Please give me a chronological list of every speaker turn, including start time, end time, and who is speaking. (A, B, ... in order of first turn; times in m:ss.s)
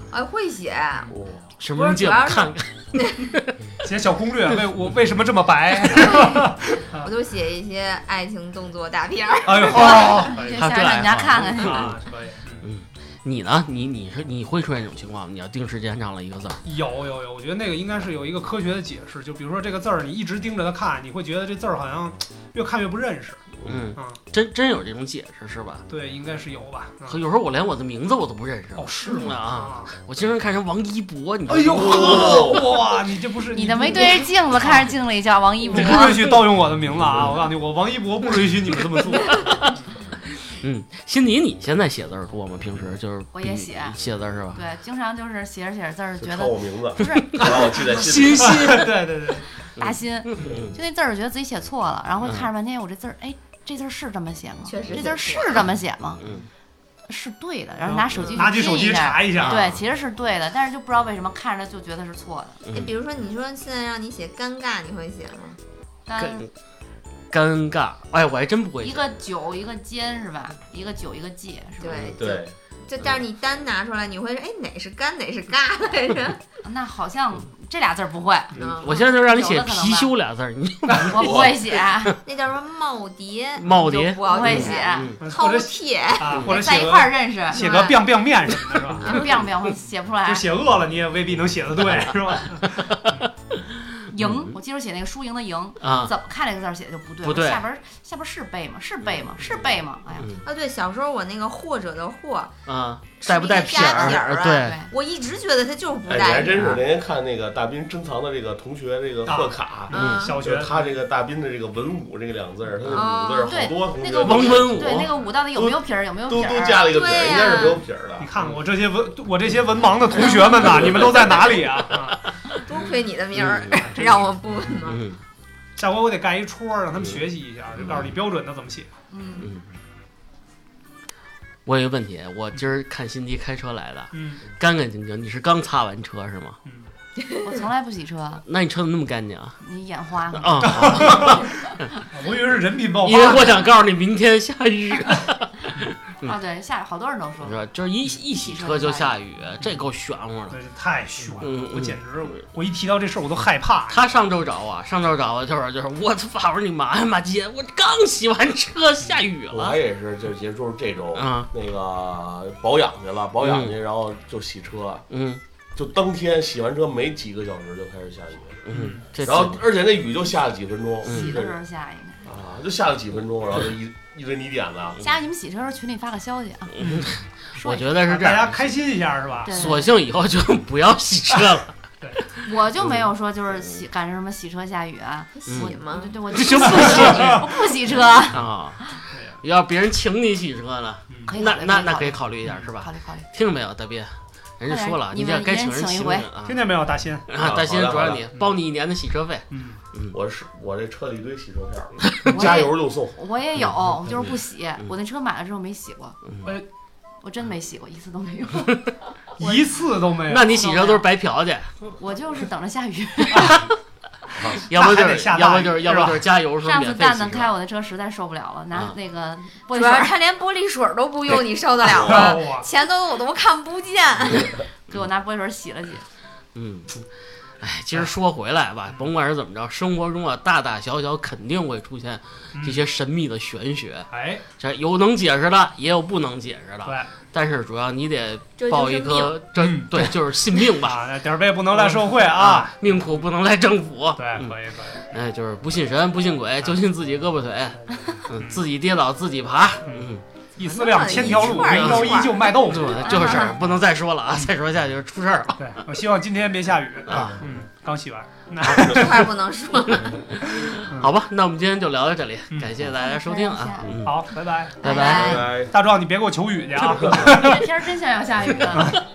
0:00.1-0:03.3 A
0:01.1-0:01.5 B
0:01.6-0:03.7 C
0:03.8-0:07.1 D
0:06.0-0:06.5 A
0:07.0-0:10.3 A
0:09.4-0:10.6 D
0:09.7-0:11.9 E
0:09.8-0:12.0 C
0:11.4-0:12.7 D
0:12.6-0:16.6 C
0:16.6-0:23.4 D
0:23.6-0:25.8 C
0:25.9-0:27.2 D
0:27.1-0:32.4 C
0:28.8-0:29.9 D
0:31.5-0:34.3 D
0:31.7-0:32.7 B
0:33.5-0:36.1 E
0:35.7-0:39.9 D
0:39.3-0:39.7 C
0:40.5-0:44.6 C
0:43.3-0:44.0 E
0:44.5-0:47.9 E
0:46.2-0:48.8 B
0:47.4-0:49.0 C
0:48.4-0:49.5 D
0:49.8-0:50.8 C
0:49.8-0:56.2 E
0:54.6-0:55.7 A
0:56.2-0:56.5 C
0:57.1-1:02.6 E
0:57.8-0:59.6 D
0:58.2-0:58.6 A
0:59.3-0:59.8 C
1:02.6-1:02.9 C
1:02.7-1:05.6 A
1:06.1-1:06.4 E
1:06.2-1:06.5 C
1:07.3-1:09.1 C
1:08.8-1:12.1 E
1:11.8-1:16.4 A
1:12.1-1:12.5 B
1:16.6-1:20.1 E
1:18.6-1:19.0 A
1:18.6-1:22.1 C
1:20.9-1:22.2 E
1:21.2-1:21.6 B
1:22.2-1:26.5 A
1:23.6-1:25.2 C
1:24.2-1:25.1 E
1:25.2-1:29.2 D
1:26.5-1:28.1 E
1:27.5-1:28.0 A
1:29.0-1:30.5 E
1:30.2-1:33.3 D
1:32.0-1:33.3 C
1:34.0-1:34.4 C
1:34.1-1:40.4 E
1:35.8-1:36.1 C
1:37.2-1:37.6 C
1:40.4-1:42.5 A
1:42.7-1:44.8 C
1:43.2-1:46.8 A
1:44.6-1:44.9 E
1:46.1-1:58.3 B
1:46.5-1:46.8 C
1:49.3-1:50.9 D
1:49.9-1:50.4 A
1:50.0-1:50.2 C
1:52.8-1:53.1 C
1:52.9-1:53.7 A
1:53.5-1:56.9 E
1:54.2-1:55.1 C
1:56.7-1:57.8 A
1:58.2-2:02.2 D
2:00.5-2:01.6 C
2:02.7-2:05.0 A
2:03.3-2:03.8 C
2:04.0-2:04.3 D
2:04.8-2:05.2 C
2:05.8-2:08.9 D
2:09.1-2:09.5 E
2:11.7-2:16.6 C
2:14.1-2:14.4 D
2:16.6-2:16.9 D
2:17.4-2:18.4 E
2:18.5-2:19.6 C
2:19.6-2:21.5 E
2:20.3-2:21.9 C
2:20.6-2:23.6 D
2:23.0-2:26.4 C
2:26.2-2:27.6 E
2:27.4-2:30.6 C
2:28.3-2:29.2 E
2:30.5-2:34.2 D
2:31.4-2:32.3 C
2:33.9-2:39.8 C
2:39.5-2:45.0 B
2:41.2-2:41.5 C
2:43.4-2:43.8 C
2:45.1-2:45.4 C
2:45.8-2:48.7 B
2:48.7-2:49.6 C
2:48.7-2:49.1 D
2:49.2-2:51.6 B
2:51.0-2:52.3 E
2:51.0-2:51.4 C
2:52.2-2:55.0 B
2:55.0-2:56.8 E
2:56.8-2:58.6 C
2:56.8-2:57.2 D
2:57.6-2:57.9 E
2:58.0-2:59.8 D
2:59.4-2:59.9 E
2:59.5-3:03.1 C
3:02.4-3:09.0 E
3:05.4-3:06.4 A
3:05.5-3:05.8 C
3:06.3-3:07.6 C
3:06.6-3:07.5 D
3:08.3-3:16.6 C
3:09.1-3:09.4 D
3:11.1-3:11.4 D
3:11.3-3:13.3 E
3:14.7-3:16.3 E
3:16.4-3:17.3 D
3:17.3-3:20.2 C
3:17.4-3:18.3 B
3:19.5-3:19.8 D
3:20.1-3:23.2 B
3:22.1-3:22.6 C
3:22.3-3:26.2 E
3:27.2-3:28.9 E
3:29.4-3:30.5 D
3:29.4-3:29.8 E
3:30.3-3:31.7 C
3:30.4-3:31.0 E
3:32.0-3:33.7 E
3:34.4-3:34.7 B
3:34.7-3:37.5 C
3:34.7-3:36.3 D
3:36.6-3:40.2 E
3:39.7-3:44.5 A
3:41.9-3:42.7 D
3:44.9-3:46.0 E
3:46.6-3:47.0 C
3:47.6-4:01.0 C
3:52.5-3:52.8 D
3:54.1-3:54.4 D
3:56.8-3:57.1 D
3:58.6-3:59.4 A
3:59.6-4:00.2 D
4:00.7-4:03.1 D
4:01.7-4:10.2 C
4:04.2-4:05.0 D
4:08.3-4:08.6 D
4:09.8-4:13.4 D
4:10.6-4:12.6 A
4:11.2-4:15.7 C
4:13.0-4:13.6 E
4:15.6-4:19.3 D
4:17.1-4:17.4 C
4:18.7-4:20.1 A
4:18.7-4:19.1 C
4:19.9-4:24.2 C
4:20.6-4:21.1 D
4:23.0-4:24.0 A
4:24.0-4:27.6 D
4:24.8-4:25.4 C
4:24.8-4:25.5 A
4:25.1-4:25.8 B
4:27.1-4:29.0 E
4:28.7-4:29.0 D